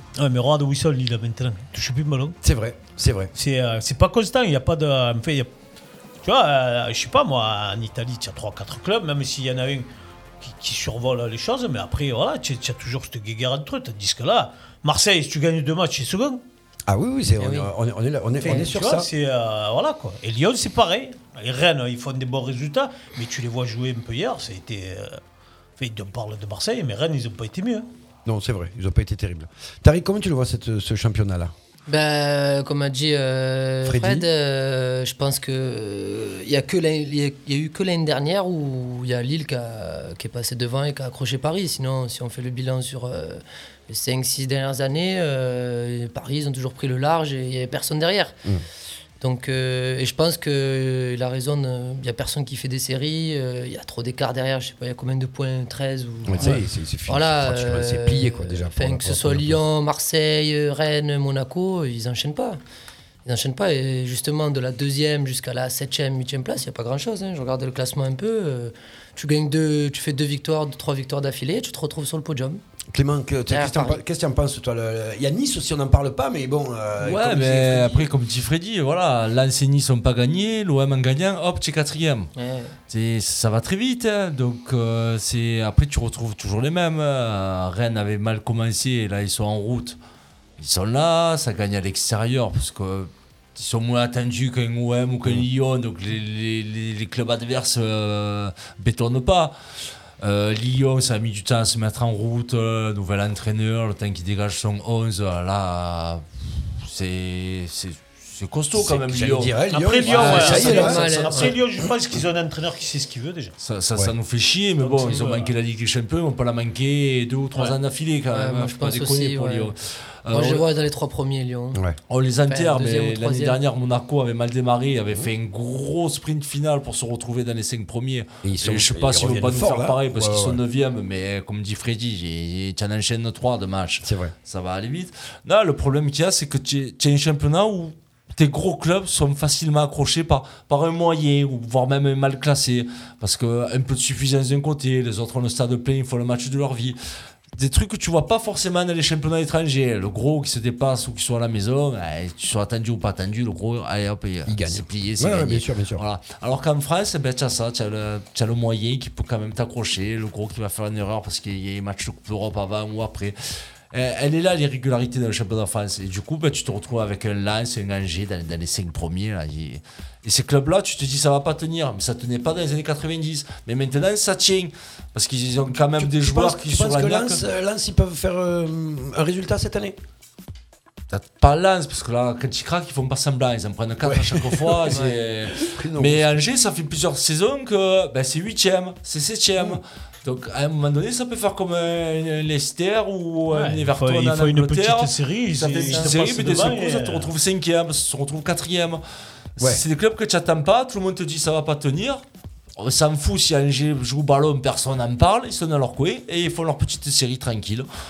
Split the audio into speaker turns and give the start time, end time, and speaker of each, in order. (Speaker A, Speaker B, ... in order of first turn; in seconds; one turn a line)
Speaker A: 0.2-2.4
Speaker B: 2.4-3.3
Speaker A: 3.4-5.5
Speaker A: 6.2-9.9
Speaker A: 10.4-16.4
Speaker B: 16.9-19.1
Speaker C: 17.4-17.7
Speaker A: 18.4-25.2
Speaker A: 25.8-27.9
Speaker B: 28.2-31.5
Speaker C: 31.9-48.4
Speaker B: 33.9-34.3
Speaker C: 49.2-62.6
Speaker B: 56.3-59.6
Speaker C: 63.2-72.6
Speaker B: 72.9-78.1
Speaker C: 73.5-74.0
Speaker D: 77.0-82.3
Speaker C: 82.4-82.8
Speaker D: 82.9-90.0
Speaker D: 90.6-99.5
Speaker D: 100.2-106.3
Speaker D: 106.8-111.6
Speaker B: 108.7-111.0
Speaker A: 109.7-113.5
Speaker C: 110.6-111.5
Speaker D: 113.6-120.7
Speaker A: 114.8-115.5
Speaker C: 118.3-119.7
Speaker C: 120.3-121.8
Speaker D: 122.1-147.0
Speaker C: 122.5-123.6
Speaker B: 128.4-130.6
Speaker B: 134.0-134.3
Speaker D: 147.6-163.4
Speaker B: 154.5-156.0
Speaker D: 163.9-177.4
Speaker B: 176.0-180.0
Speaker D: 181.1-199.0
Speaker B: 184.0-185.0
Speaker C: 184.9-185.2
Speaker B: 185.6-186.4
Speaker A: 193.5-197.3
Speaker D: 199.6-202.2
Speaker D: 202.8-207.9